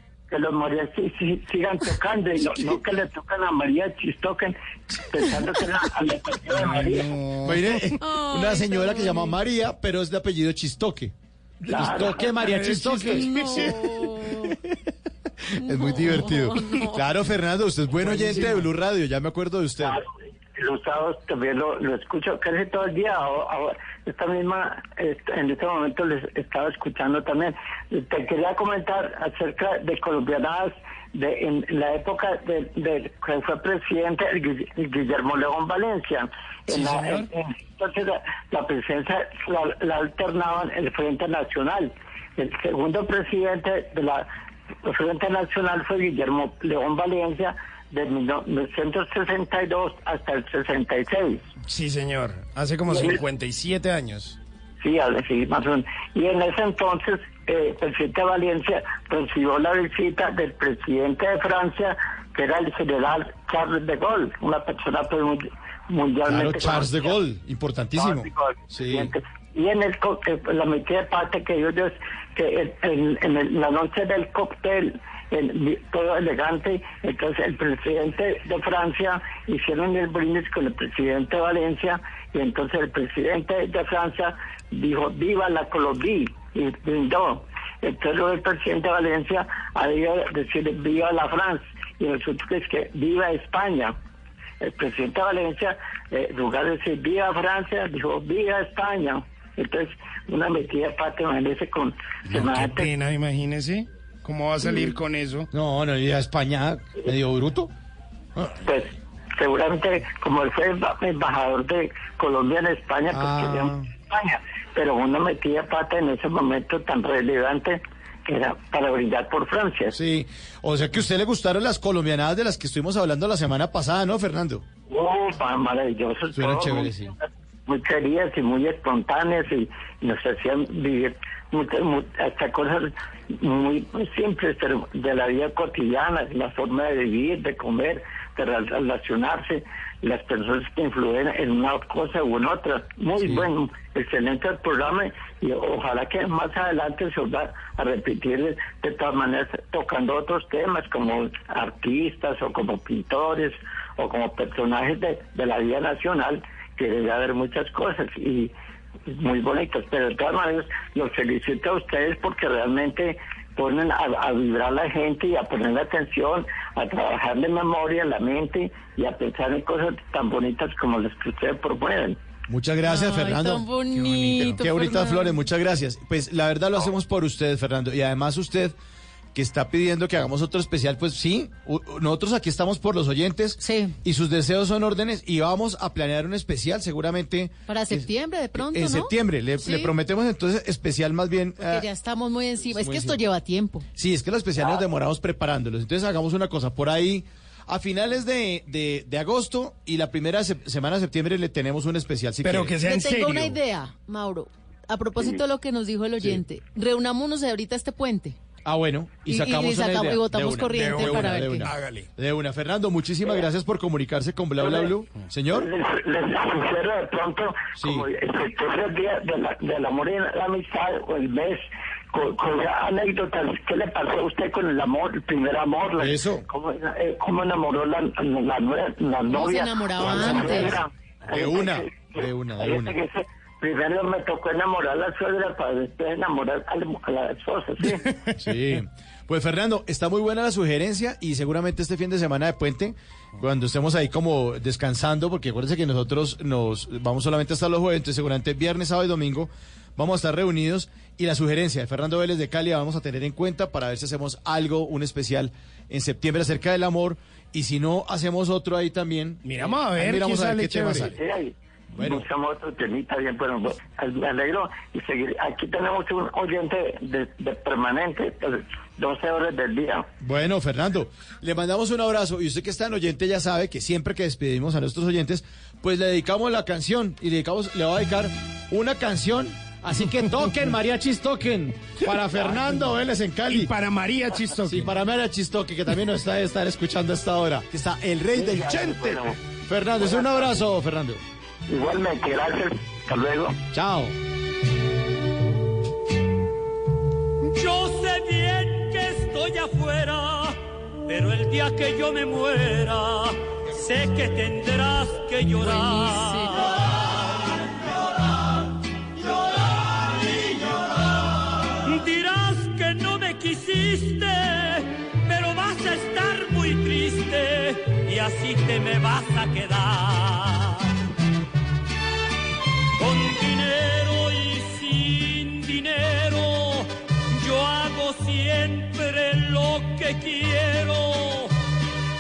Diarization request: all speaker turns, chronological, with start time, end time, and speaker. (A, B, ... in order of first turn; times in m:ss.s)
0:00.3-0:07.1 A
0:06.4-0:07.9 B
0:07.4-0:14.5 C
0:08.0-0:09.4 D
0:11.7-0:12.2 A
0:11.7-0:13.7 B
0:13.1-0:14.6 D
0:15.6-0:17.0 D
0:15.6-0:20.0 C
0:18.0-0:18.7 B
0:20.6-0:44.3 A
0:36.7-0:37.3 B
0:44.8-0:51.4 A
0:51.7-0:54.4 B
0:52.9-0:53.2 A
0:54.8-1:07.2 A
1:06.2-1:09.1 C
1:07.9-1:34.0 A
1:34.6-1:42.9 A
1:42.3-1:45.5 B
1:45.5-1:47.7 C
1:48.6-1:59.9 A
1:53.1-1:53.9 C
1:59.9-2:04.6 C
2:04.9-2:07.2 A
2:06.3-2:07.1 C
2:07.7-2:38.5 A
2:23.2-2:23.5 C
2:39.1-2:52.2 A
2:52.5-2:58.7 C
2:52.8-2:55.4 D
2:54.2-2:54.5 B
2:59.3-3:11.9 C
3:03.6-3:04.0 D
3:07.7-3:09.9 D
3:11.6-3:13.8 D
3:12.8-3:13.2 C
3:14.0-3:22.8 C
3:22.4-3:23.6 B
3:22.8-3:28.4 D
3:28.6-3:35.7 C
3:29.2-3:31.7 D
3:30.7-3:32.1 B
3:34.6-3:34.9 A
3:35.5-3:58.0 A
3:37.8-3:38.0 C
3:46.0-3:46.4 C
3:49.3-3:50.8 D
3:50.0-3:50.8 C
3:51.3-3:53.0 C
3:57.8-3:58.8 B
3:58.4-4:21.2 C
4:19.4-4:21.2 B
4:21.1-4:30.1 A
4:22.0-4:22.3 C
4:30.2-4:43.7 C
4:43.5-4:44.9 B
4:44.7-4:51.2 C
4:48.3-4:49.3 A
4:50.0-4:50.6 A
4:51.7-4:53.6 A
4:53.7-4:54.1 C
4:57.5-5:07.0 E
5:05.6-5:06.7 D
5:11.8-5:21.0 E
5:23.0-5:31.5 E